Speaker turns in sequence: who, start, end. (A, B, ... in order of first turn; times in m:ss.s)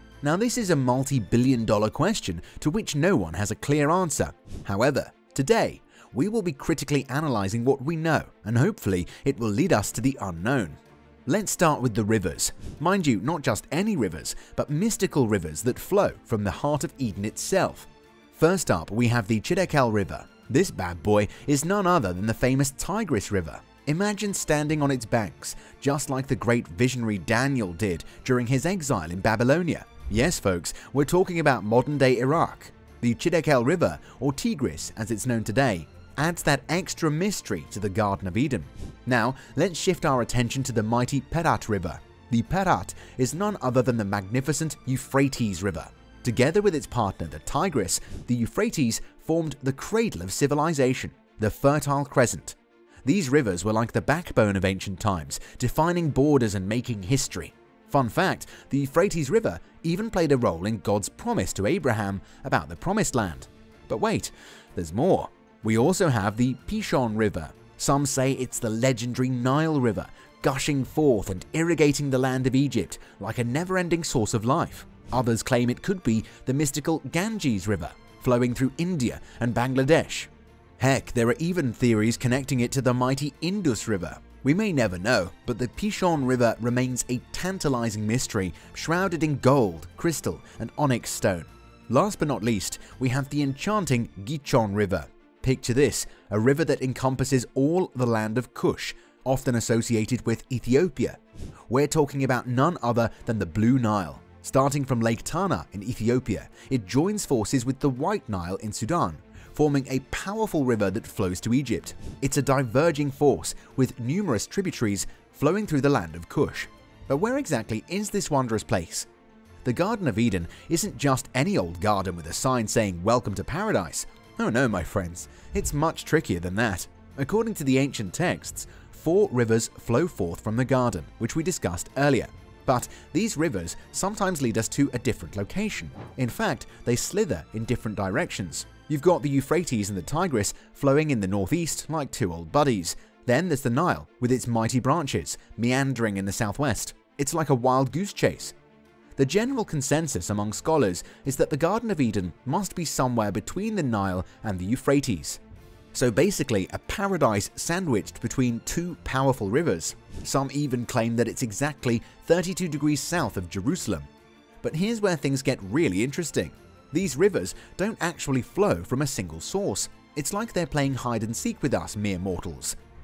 0:00.2-1:59.1 A
1:59.6-2:28.5 A
2:29.2-2:35.4 A
2:35.9-2:44.1 A
2:44.6-2:52.8 A